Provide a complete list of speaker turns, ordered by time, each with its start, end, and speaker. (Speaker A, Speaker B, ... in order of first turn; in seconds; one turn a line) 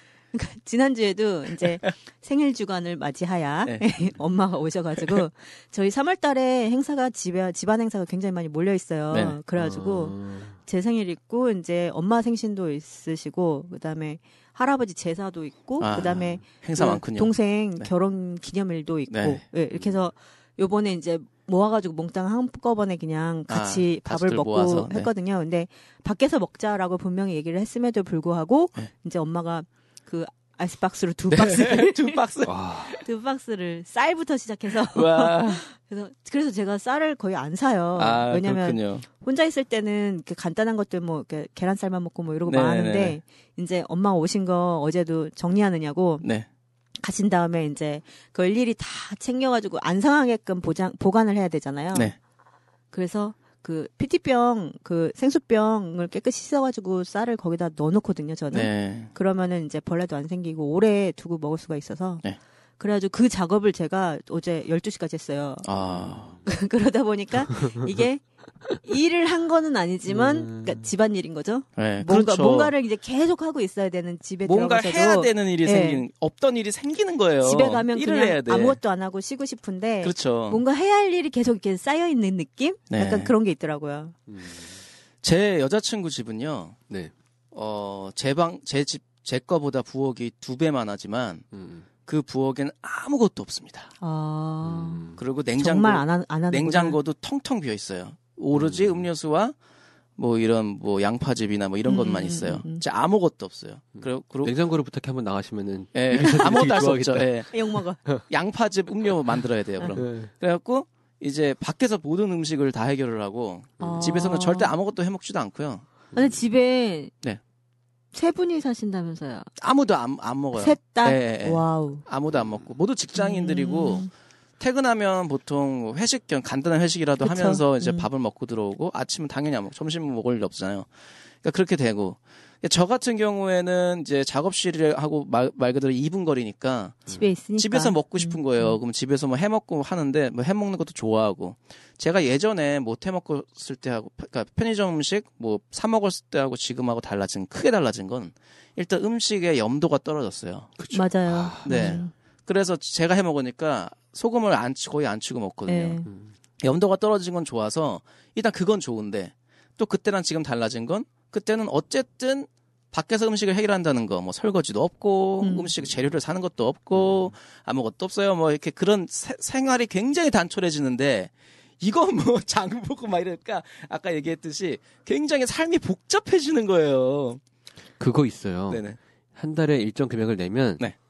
Speaker A: 0.3-32.2
Speaker B: 9.1-9.4
Speaker C: 9.6-10.6
Speaker B: 15.8-17.9
Speaker B: 19.1-19.4
Speaker B: 23.5-25.1
Speaker B: 31.3-33.0
Speaker C: 32.4-33.0
Speaker A: 33.0-46.3
Speaker B: 34.7-35.6
Speaker B: 38.0-39.0
Speaker B: 42.5-43.2
Speaker B: 46.2-46.5
Speaker A: 47.0-52.1
Speaker A: 52.9-62.2
Speaker B: 58.5-59.1
Speaker A: 62.8-65.7
Speaker B: 65.6-66.4
Speaker C: 65.8-66.4
Speaker A: 66.4-68.2
Speaker A: 68.8-76.1
Speaker C: 70.1-70.9
Speaker B: 71.8-72.8
Speaker B: 74.4-78.8
Speaker A: 77.4-84.2
Speaker B: 80.0-80.6
Speaker B: 82.9-83.3
Speaker C: 84.3-84.8
Speaker B: 85.2-86.8
Speaker B: 87.5-91.4
Speaker C: 91.5-91.9
Speaker B: 92.0-93.9
Speaker A: 94.0-95.0
Speaker C: 94.6-95.2
Speaker B: 95.2-99.5
Speaker A: 95.5-97.0
Speaker C: 98.5-99.1
Speaker B: 100.2-104.5
Speaker A: 101.8-102.8
Speaker C: 103.9-107.5
Speaker B: 105.9-107.5
Speaker A: 106.1-106.7
Speaker A: 107.5-108.0
Speaker B: 108.3-115.8
Speaker C: 109.9-110.3
Speaker C: 113.8-114.2
Speaker A: 113.8-114.7
Speaker A: 116.1-117.1
Speaker A: 118.1-119.5
Speaker B: 119.6-124.1
Speaker A: 120.5-122.0
Speaker A: 123.1-124.1
Speaker B: 124.6-130.9
Speaker A: 127.2-128.1
Speaker B: 131.4-151.1
Speaker A: 137.1-138.8
Speaker A: 150.9-152.1
Speaker C: 151.3-152.0
Speaker B: 151.6-156.0
Speaker A: 155.7-156.1
Speaker C: 156.1-156.3
Speaker B: 156.6-177.4
Speaker A: 165.4-165.7
Speaker C: 178.0-180.9
Speaker B: 178.7-179.0